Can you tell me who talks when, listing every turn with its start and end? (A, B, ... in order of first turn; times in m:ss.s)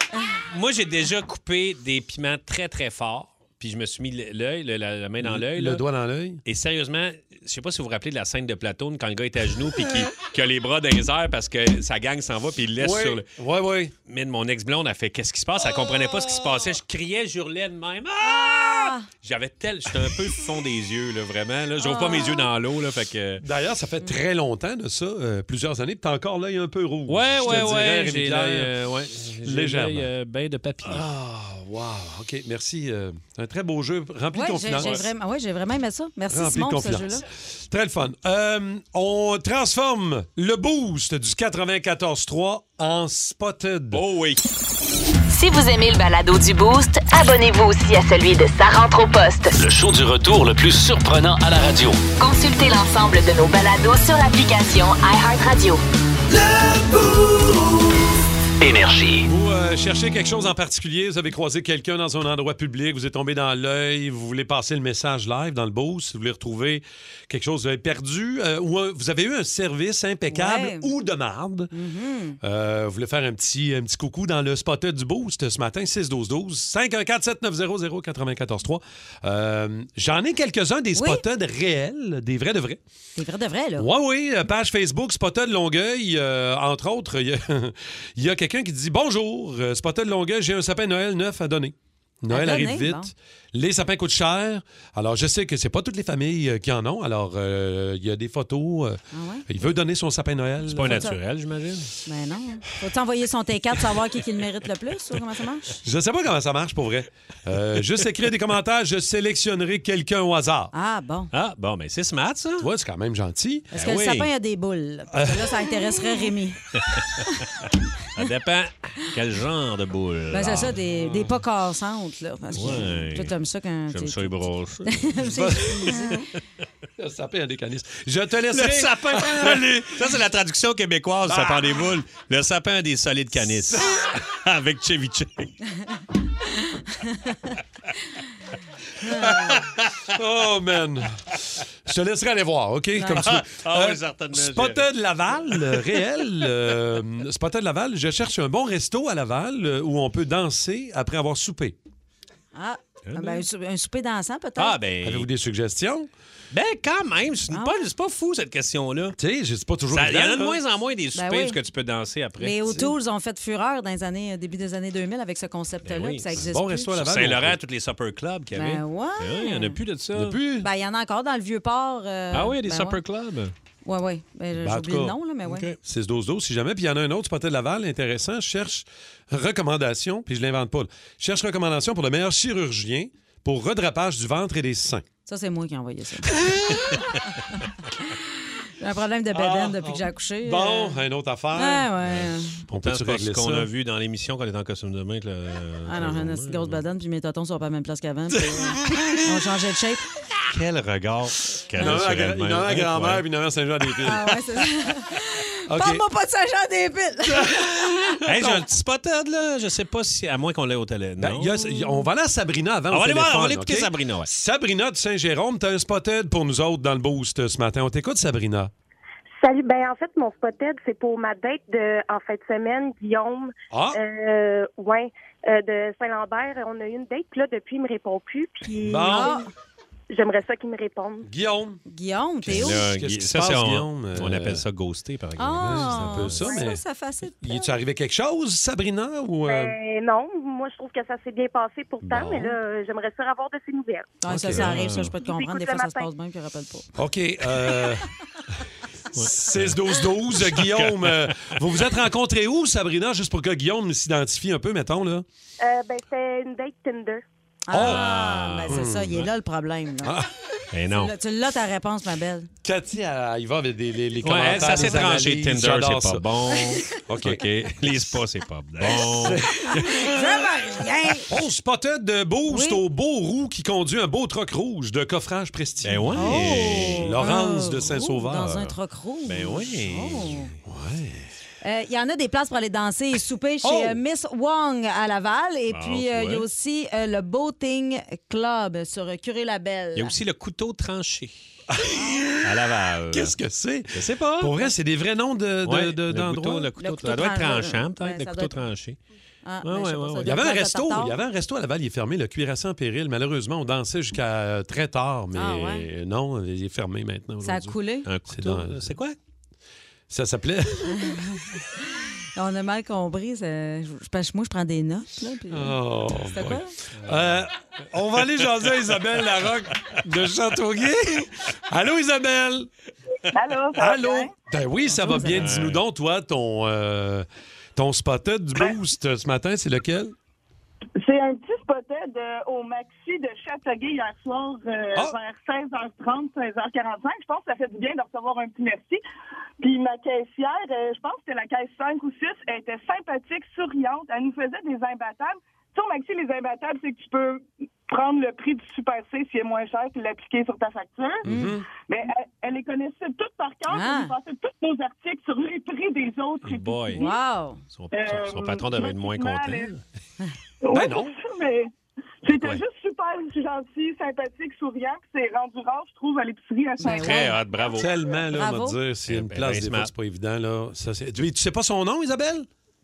0:00.5-0:05.8 A
0:05.2-0:06.4 B
0:06.4-0:13.3 A
0:12.8-0:13.9 B
0:14.1-0:23.4 A
0:18.2-0:19.1 C
0:21.8-0:22.5 C
0:23.4-0:28.7 B
0:27.1-0:31.0 A
0:29.4-0:30.1 B
0:30.8-0:35.1 B
0:34.3-0:37.2 C
0:34.8-0:35.0 A
0:36.3-0:44.0 B
0:43.9-0:44.4 A
0:45.3-0:49.5 D
0:49.6-0:52.0 E
0:52.2-0:55.8 D
0:58.6-0:59.3 E
0:59.2-1:11.7 B
1:10.3-1:10.9 C
1:11.7-1:12.4 C
1:12.4-1:22.8 B
1:20.9-1:21.2 C
1:23.2-1:23.9 C
1:23.8-1:41.1 B
1:32.3-1:33.1 C
1:39.1-1:39.5 C
1:40.6-1:41.9 A
1:40.8-1:41.2 C
1:42.0-1:45.8 C
1:45.8-1:50.7 B
1:50.7-1:51.3 C
1:51.3-1:52.7 A
1:52.6-1:53.7 B
1:53.7-1:56.6 C
1:53.7-1:54.3 A
1:55.1-1:55.5 B
1:57.2-1:57.4 C
1:58.1-2:00.7 A
2:00.3-2:06.3 C
2:00.9-2:01.4 B
2:02.5-2:03.3 A
2:03.9-2:05.2 A
2:05.2-2:06.0 B
2:05.9-2:06.1 A
2:07.0-2:10.1 B
2:08.5-2:15.5 A
2:11.2-2:11.9 B
2:13.4-2:14.1 B
2:16.4-2:17.6 C
2:19.0-2:19.6 C
2:19.3-2:19.9 A
2:20.1-2:21.2 B
2:21.9-2:31.8 B
2:23.0-2:23.2 C
2:23.2-2:24.9 A
2:25.5-2:26.0 A
2:32.5-2:34.8 C
2:33.0-2:33.4 A
2:34.6-2:35.3 A
2:35.0-2:36.1 B
2:36.5-2:39.2 A
2:37.5-2:37.8 C
2:39.2-2:40.6 B
2:39.9-2:42.9 A
2:41.1-2:41.6 C
2:42.4-2:46.9 C
2:45.8-2:50.4 A
2:46.4-2:47.6 B
2:48.5-2:49.8 C
2:50.1-2:50.7 B
2:50.6-2:53.0 C
2:52.3-2:53.5 A
2:53.8-2:55.7 C
2:54.6-2:55.2 B
2:55.4-2:55.8 A
2:55.8-3:05.0 B
3:05.2-3:06.4 C
3:06.4-3:07.0 B
3:07.9-3:08.2 C
3:08.8-3:11.0 C
3:09.3-3:11.9 B
3:11.5-3:12.6 C
3:12.1-3:16.8 A
3:12.7-3:13.7 B
3:15.9-3:20.1 C
3:18.5-3:19.2 B
3:20.5-3:23.2 A
3:21.8-3:24.4 B
3:21.8-3:22.0 C
3:24.0-3:28.2 C
3:25.7-3:26.0 B
3:27.3-3:28.7 B
3:28.2-3:31.6 A
3:31.2-3:38.7 B
3:31.7-3:32.1 C
3:32.9-3:34.3 A
3:39.4-3:49.5 F
3:43.7-3:44.0 B
3:48.8-3:49.4 B
3:49.1-3:49.4 C
3:50.1-3:51.3 F
3:51.2-3:51.8 B
3:51.9-3:52.8 C
3:52.4-3:54.6 B
3:52.4-3:56.4 A
3:55.4-3:57.7 C
3:55.5-3:56.8 B
3:57.4-3:59.7 B
3:59.4-4:04.2 F
4:02.0-4:02.5 A
4:04.2-4:06.9 C
4:04.3-4:04.9 B
4:04.4-4:05.1 A
4:05.2-4:06.1 F
4:07.0-4:08.1 B
4:09.1-4:09.7 A
4:09.1-4:15.2 B
4:10.3-4:11.6 A
4:15.6-4:17.2 F
4:17.7-4:20.2 C
4:17.7-4:19.2 B
4:17.7-4:19.2 A
4:20.7-4:21.1 A
4:21.0-4:22.5 C
4:22.6-4:26.2 B
4:24.2-4:29.5 A
4:24.7-4:25.0 C
4:26.9-4:27.8 B
4:28.8-4:30.2 B
4:29.5-4:31.3 C
4:31.3-4:38.7 B
4:32.5-4:32.8 C
4:35.8-4:37.2 A
4:36.1-4:40.5 C
4:39.3-4:41.0 A
4:40.7-4:40.9 B
4:41.6-4:50.1 C
4:43.6-4:44.0 B
4:45.7-4:46.4 A
4:49.9-4:51.5 A
4:51.7-4:52.5 B
4:52.4-4:53.4 A
4:53.1-4:56.7 B
4:53.9-4:54.5 A
4:55.6-4:59.0 A
4:56.8-4:58.5 C
4:59.4-5:01.2 C
4:59.6-5:00.3 A
5:00.2-5:07.8 B
5:05.3-5:05.9 C
5:07.4-5:08.1 C
5:08.0-5:09.1 A
5:08.3-5:09.0 B
5:10.1-5:11.4 B
5:10.9-5:16.7 C
5:15.5-5:22.7 B
5:17.0-5:17.4 A
5:23.3-5:24.3 G
5:23.7-5:30.1 B
5:25.0-5:25.4 C
5:25.1-5:25.8 A
5:31.0-5:39.0 G
5:39.6-5:57.1 G
5:51.2-5:51.7 B
5:51.2-5:51.6 C
5:53.7-5:54.1 C
5:56.4-5:57.1 A
5:56.9-5:57.6 C
5:57.7-5:59.8 A
5:57.9-5:59.7 G
6:00.6-6:01.7 G
6:00.7-6:01.2 B
6:02.2-6:08.1 G
6:02.3-6:02.6 A
6:06.8-6:07.4 C
6:06.9-6:07.9 A
6:07.7-6:12.5 B
6:08.3-6:08.8 C
6:09.1-6:09.9 A